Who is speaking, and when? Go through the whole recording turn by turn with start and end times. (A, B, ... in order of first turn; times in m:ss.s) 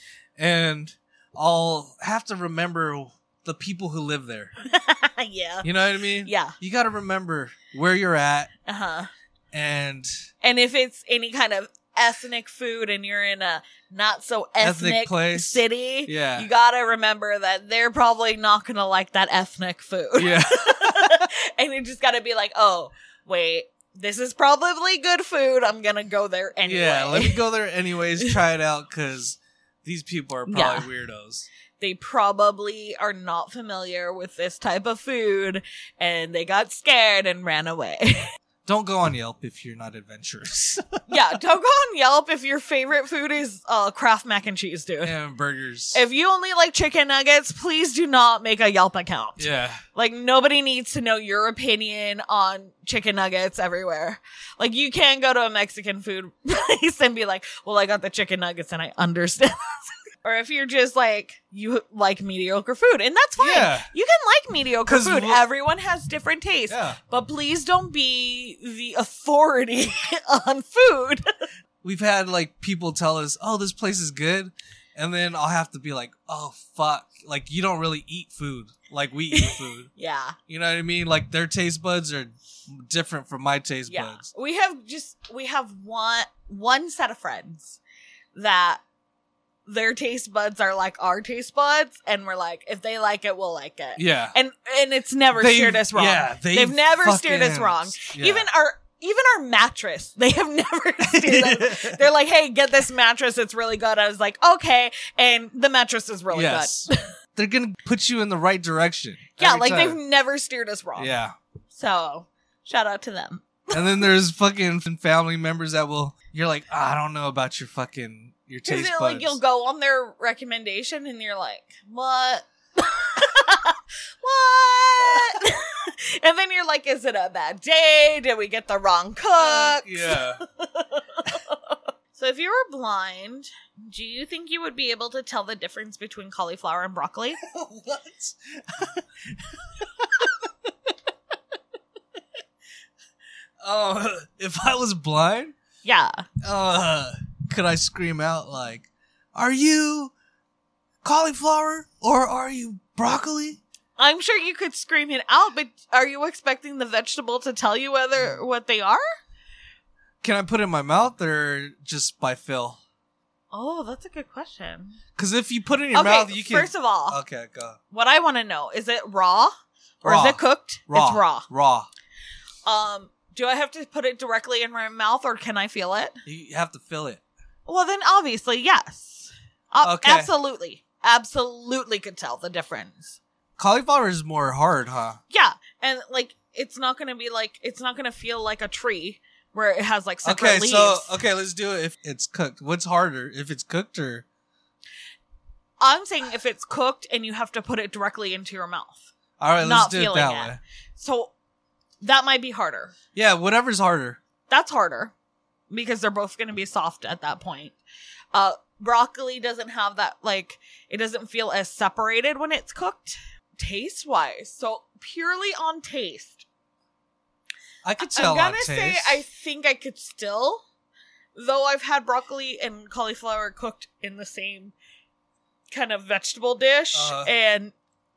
0:00.4-0:04.5 A
0:04.6-0:05.7 B
0:05.6-0:08.5 A
0:06.2-0:06.6 B
0:08.6-0:09.1 B
0:09.5-0:10.1 A
0:10.4-0:27.4 B
0:14.6-0:16.5 A
0:20.2-0:21.3 A
0:26.6-0:31.5 A
0:30.5-0:30.9 B
0:31.8-0:38.3 B
0:38.6-0:41.0 A
0:41.1-0:45.1 B
0:45.0-0:46.0 A
0:45.9-1:11.2 B
0:49.4-0:49.8 A
1:03.4-1:03.9 A
1:04.9-1:05.4 A
1:06.7-1:07.0 A
1:11.8-1:19.9 A
1:19.3-1:20.4 B
1:20.5-1:24.3 A
1:23.9-1:27.8 B
1:28.3-1:28.8 B
1:29.6-1:47.1 B
1:34.0-1:34.3 A
1:35.3-1:38.5 A
1:41.0-1:42.0 A
1:46.3-1:50.0 A
1:49.4-1:51.1 B
1:51.0-1:51.3 A
1:51.7-1:54.1 B
1:53.7-1:59.4 A
1:58.6-2:17.4 B
2:05.0-2:05.4 A
2:09.4-2:10.4 A
2:17.4-2:20.7 A
2:23.6-2:25.6 A
2:25.8-2:26.2 B
2:26.4-2:30.1 A
2:31.0-2:33.6 A
2:34.0-2:39.0 B
2:40.2-2:42.8 A
2:43.5-2:45.0 B
2:45.2-2:47.8 A
2:45.9-2:47.2 B
2:47.9-2:51.5 B
2:50.0-2:51.9 A
2:52.6-2:56.2 B
2:56.2-2:57.2 A
2:57.6-3:03.2 B
2:59.8-3:00.3 A
3:03.6-3:05.2 A
3:05.3-3:11.1 B
3:10.2-3:14.2 A
3:15.8-3:19.0 B
3:19.4-3:20.6 A
3:19.6-3:21.3 B
3:22.0-3:22.9 B
3:23.1-3:24.2 A
3:24.5-3:25.1 B
3:25.7-3:27.8 B
3:28.3-3:36.4 B
3:37.8-3:39.2 A
3:38.0-3:40.6 B
3:41.3-3:44.7 B
3:45.7-3:47.7 B
3:46.9-3:47.3 A